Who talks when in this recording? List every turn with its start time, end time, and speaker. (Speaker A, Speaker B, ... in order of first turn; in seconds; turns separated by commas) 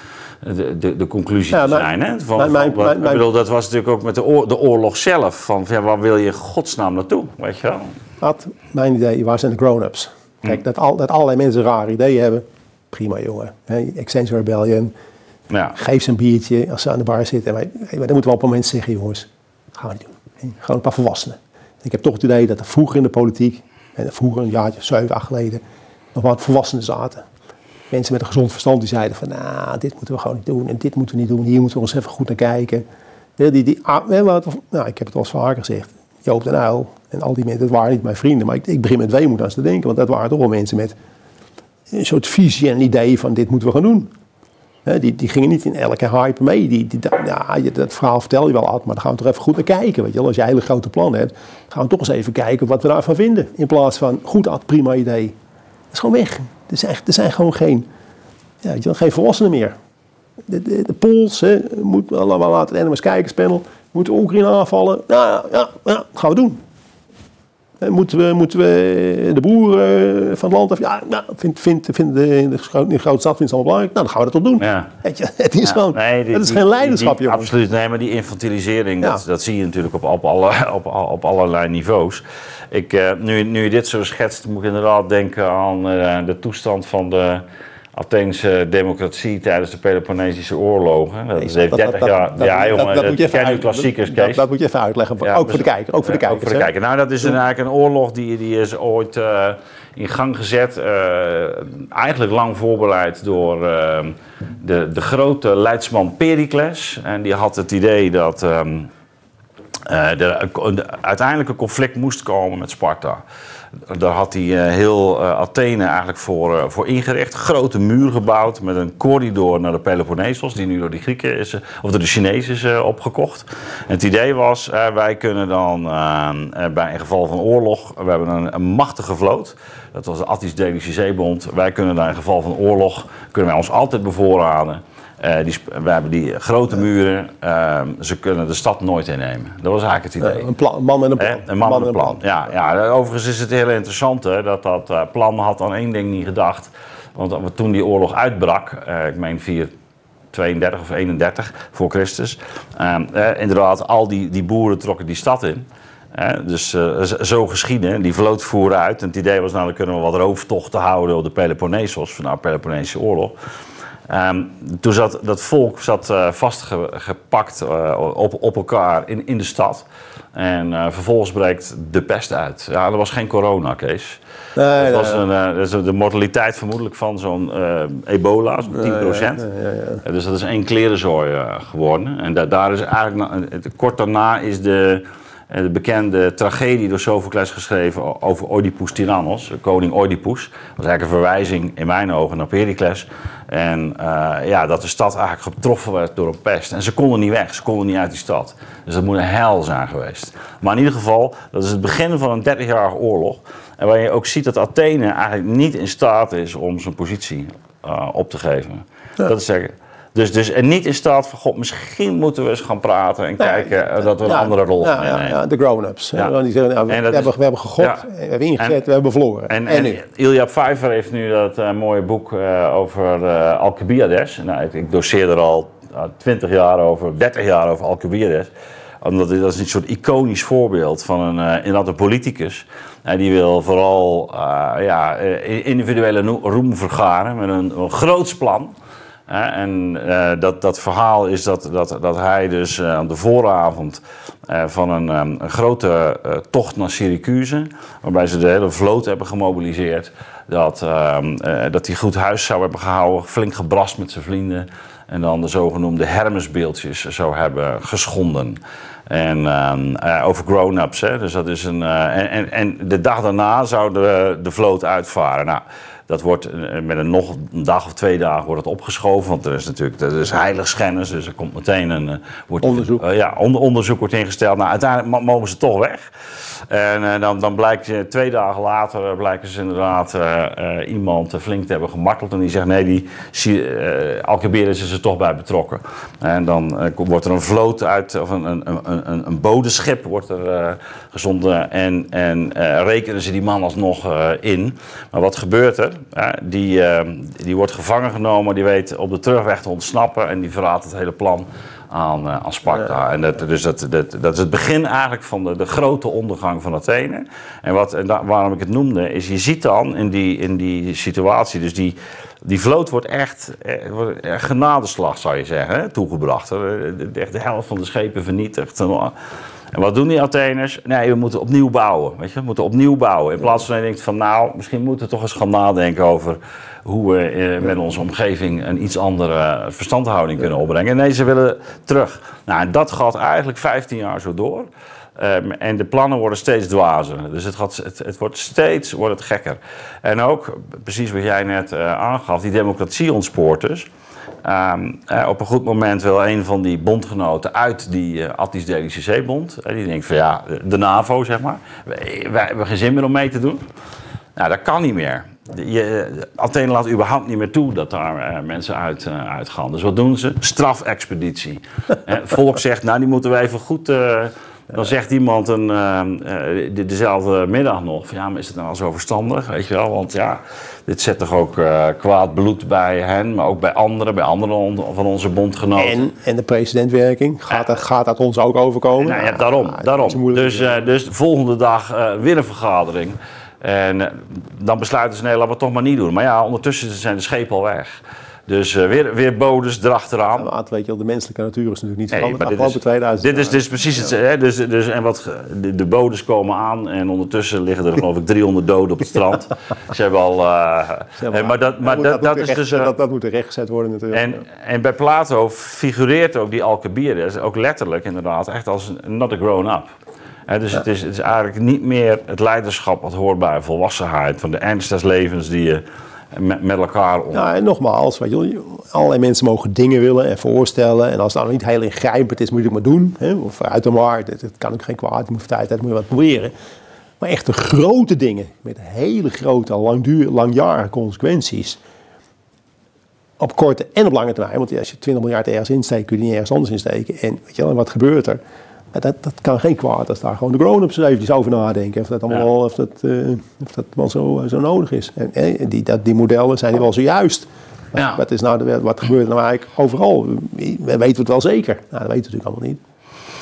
Speaker A: 0.4-7.9, Speaker B: 1.5-3.3, Speaker B: 8.2-14.9, Speaker A: 15.5-15.8, Speaker B: 15.8-25.6, Speaker B: 26.1-27.3, Speaker B: 27.9-32.9, Speaker B: 33.4-41.0, Speaker B: 41.9-44.1, Speaker B: 44.9-55.4, Speaker B: 55.9-57.9, Speaker B: 58.6-59.8, Speaker B: 60.5-66.6, Speaker B: 67.8-77.5, Speaker A: 74.6-74.9, Speaker A: 75.7-94.5, Speaker B: 91.4-96.7, Speaker A: 95.2-108.9, Speaker A: 109.9-113.2, Speaker A: 113.9-140.5, Speaker B: 140.2-142.2, Speaker A: 141.2-149.7, Speaker A: 150.3-163.3, Speaker A: 164.1-179.5, Speaker B: 174.6-175.2, Speaker B: 178.7-180.0, Speaker A: 180.0-215.4, Speaker B: 213.4-213.7, Speaker B: 214.2-220.0, Speaker A: 216.9-218.0, Speaker A: 219.5-228.5, Speaker A: 229.0-238.7, Speaker A: 239.3-319.1, Speaker B: 272.6-273.0, Speaker A: 319.7-343.9, Speaker A: 344.4-353.6, Speaker A: 354.4-376.1, Speaker B: 375.8-380.9, Speaker A: 379.0-387.9, Speaker A: 388.5-390.5, Speaker B: 390.3-393.6, Speaker A: 392.1-402.9, Speaker B: 401.2-404.4, Speaker A: 404.1-409.9, Speaker A: 410.5-417.5, Speaker B: 417.3-426.5, Speaker B: 427.2-431.8, Speaker B: 433.4-438.4, Speaker B: 438.9-452.8, Speaker A: 448.0-448.2